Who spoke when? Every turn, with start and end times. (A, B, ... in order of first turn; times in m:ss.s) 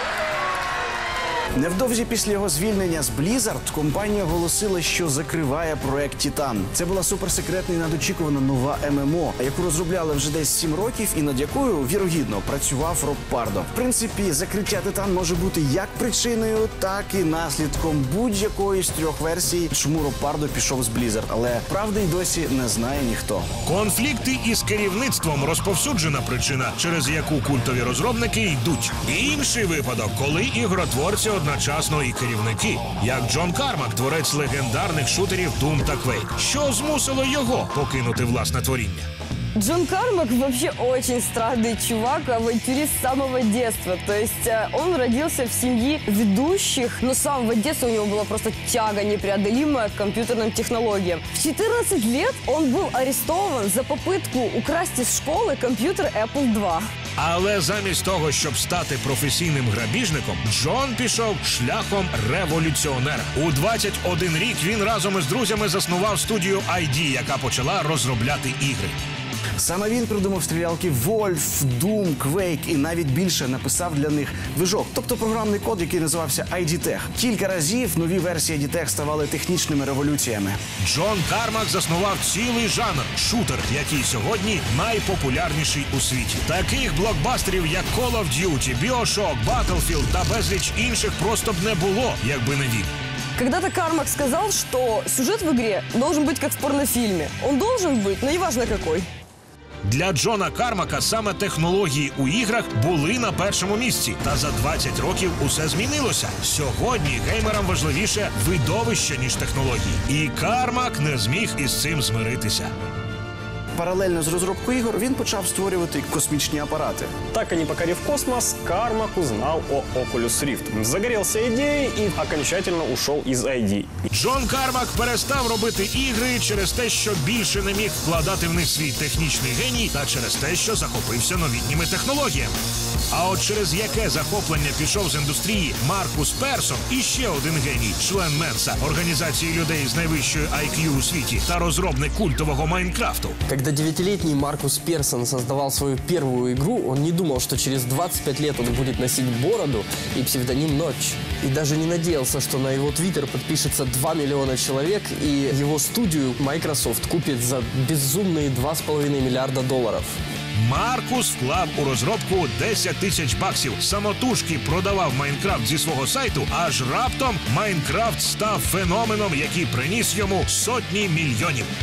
0:01.6-0:23.5 A
0:23.6-0:39.1 B
0:39.6-0:56.9 C
0:57.2-1:08.9 B
1:09.6-1:20.6 A
1:20.8-1:32.9 B
1:33.4-1:39.1 C
1:39.8-1:52.7 B
1:53.8-1:57.1 A
1:57.3-2:03.9 D
2:04.1-2:12.5 B
2:13.1-2:23.4 B
2:23.5-2:40.1 E
2:40.5-2:51.7 B